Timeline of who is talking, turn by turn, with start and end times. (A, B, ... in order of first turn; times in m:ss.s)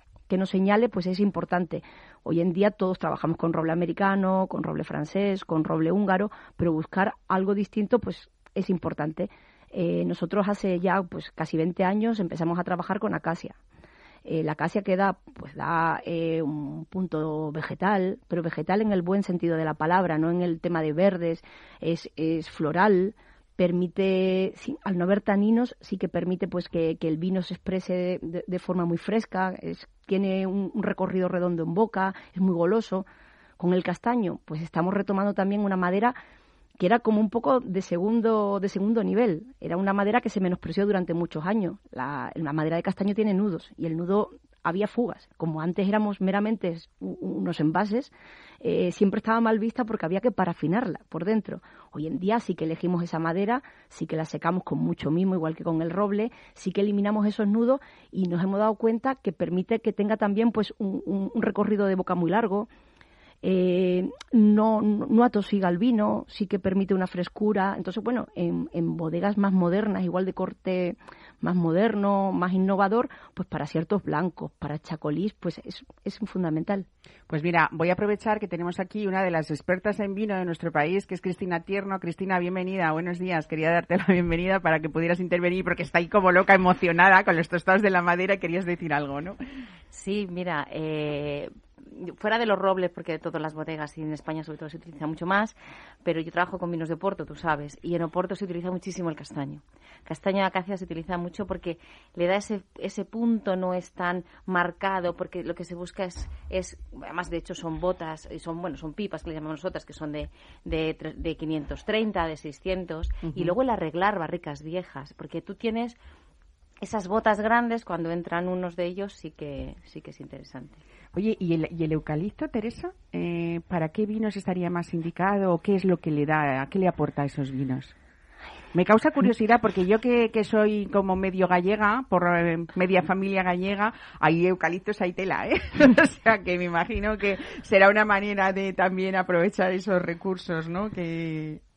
0:00.3-0:13.6 A
0:14.2-0:33.0 A
0:33.6-0:36.2 A
0:36.8-1:02.7 A
1:03.4-1:16.9 A
1:17.3-1:29.4 B
1:29.9-1:56.0 C
1:53.2-1:53.5 B
1:56.8-2:00.8 C
2:01.1-2:07.9 B
2:08.7-2:21.6 B